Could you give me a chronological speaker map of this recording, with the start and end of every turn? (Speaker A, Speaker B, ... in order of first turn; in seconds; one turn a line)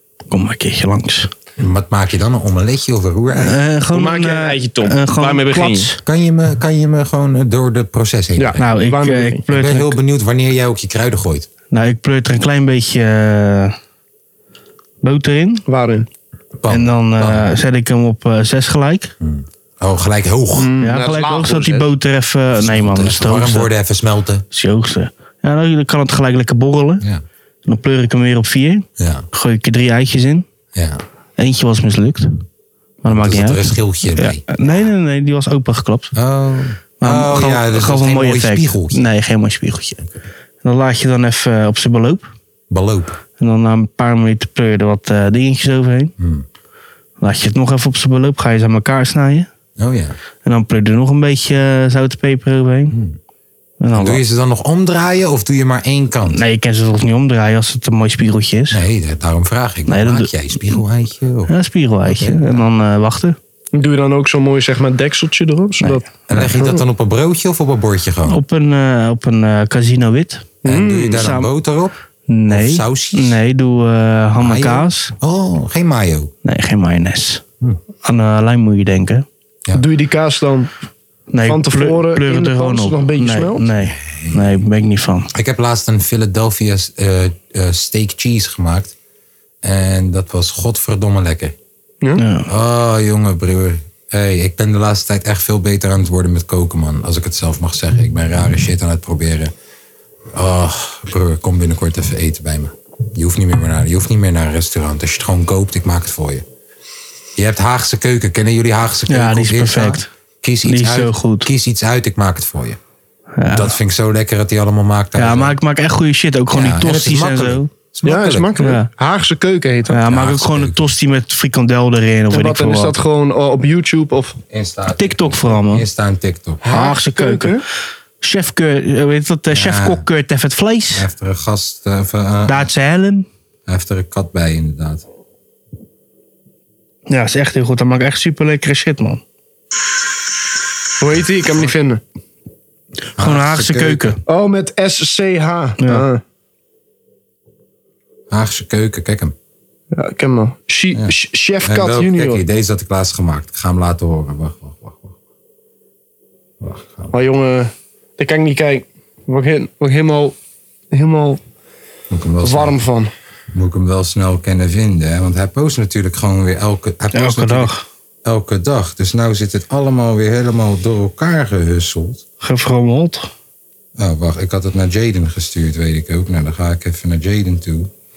Speaker A: 0.3-1.3
Speaker B: 1.6-3.6
Speaker A: 3.3-6.0
Speaker C: 3.9-5.9
Speaker B: 6.0-8.6
Speaker C: 8.4-9.4
Speaker A: 8.6-9.9
Speaker B: 9.5-11.5
Speaker A: 11.7-13.8
Speaker A: 15.0-15.6
Speaker C: 15.7-16.1
Speaker B: 16.6-17.5
Speaker A: 16.7-19.1
Speaker B: 19.2-20.7
Speaker C: 20.6-21.9
Speaker A: 20.8-23.7
Speaker B: 22.6-24.4
Speaker A: 24.5-27.0
Speaker A: 27.6-30.4
Speaker B: 29.0-29.2
Speaker B: 30.7-31.0
Speaker A: 31.4-32.3
Speaker A: 33.0-36.1
Speaker B: 33.1-34.6
Speaker B: 36.1-39.0
Speaker A: 37.0-40.1
Speaker A: 40.6-42.3
Speaker B: 42.7-43.2
Speaker A: 43.4-46.1
Speaker B: 46.2-46.5
Speaker A: 47.2-49.5
Speaker B: 49.8-50.2
Speaker A: 50.4-52.9
Speaker B: 52.9-53.2
Speaker A: 53.8-54.2
Speaker B: 53.9-56.4
Speaker A: 56.3-58.8
Speaker B: 58.7-61.5
Speaker A: 59.9-60.8
Speaker A: 61.5-63.4
Speaker B: 62.0-62.6
Speaker C: 63.7-66.8
Speaker B: 66.3-68.4
Speaker A: 68.3-70.5
Speaker C: 70.6-71.2
Speaker B: 70.6-71.9
Speaker A: 71.2-71.5
Speaker A: 72.3-75.1
Speaker B: 72.5-73.4
Speaker B: 74.4-76.3
Speaker A: 76.4-77.4
Speaker A: 78.0-79.2
Speaker C: 79.7-80.7
Speaker A: 81.3-85.3
Speaker C: 81.4-83.7
Speaker B: 83.9-84.6
Speaker B: 85.3-88.9
Speaker B: 89.6-91.5
Speaker A: 92.2-92.5
Speaker B: 92.5-99.5
Speaker B: 100.3-106.4
Speaker B: 107.3-112.8
Speaker A: 109.1-110.1
Speaker A: 110.7-111.5
Speaker A: 113.4-113.7
Speaker B: 113.5-115.6
Speaker A: 115.2-117.7
Speaker B: 116.5-118.5
Speaker C: 118.0-120.0
Speaker A: 118.6-118.9
Speaker A: 119.9-122.9
Speaker B: 120.0-120.9
Speaker C: 122.3-124.4
Speaker B: 124.5-126.6
Speaker A: 124.9-125.8
Speaker C: 126.6-127.6
Speaker A: 126.7-127.6
Speaker A: 128.2-131.1
Speaker B: 129.5-130.0
Speaker B: 130.9-132.7
Speaker A: 132.5-133.2
Speaker B: 133.7-135.1
Speaker A: 137.1-139.2
Speaker C: 141.0-142.0
Speaker B: 143.2-144.2
Speaker A: 143.2-144.2
Speaker C: 144.3-146.2
Speaker B: 148.3-149.3
Speaker C: 149.9-152.4
Speaker B: 150.9-155.2
Speaker B: 156.6-157.1
Speaker C: 157.1-160.3
Speaker C: 160.9-161.4
Speaker B: 162.1-162.8
Speaker C: 162.4-163.1
Speaker B: 163.5-167.7
Speaker A: 167.1-167.8
Speaker B: 168.2-172.2
Speaker A: 172.4-173.3
Speaker B: 174.0-177.9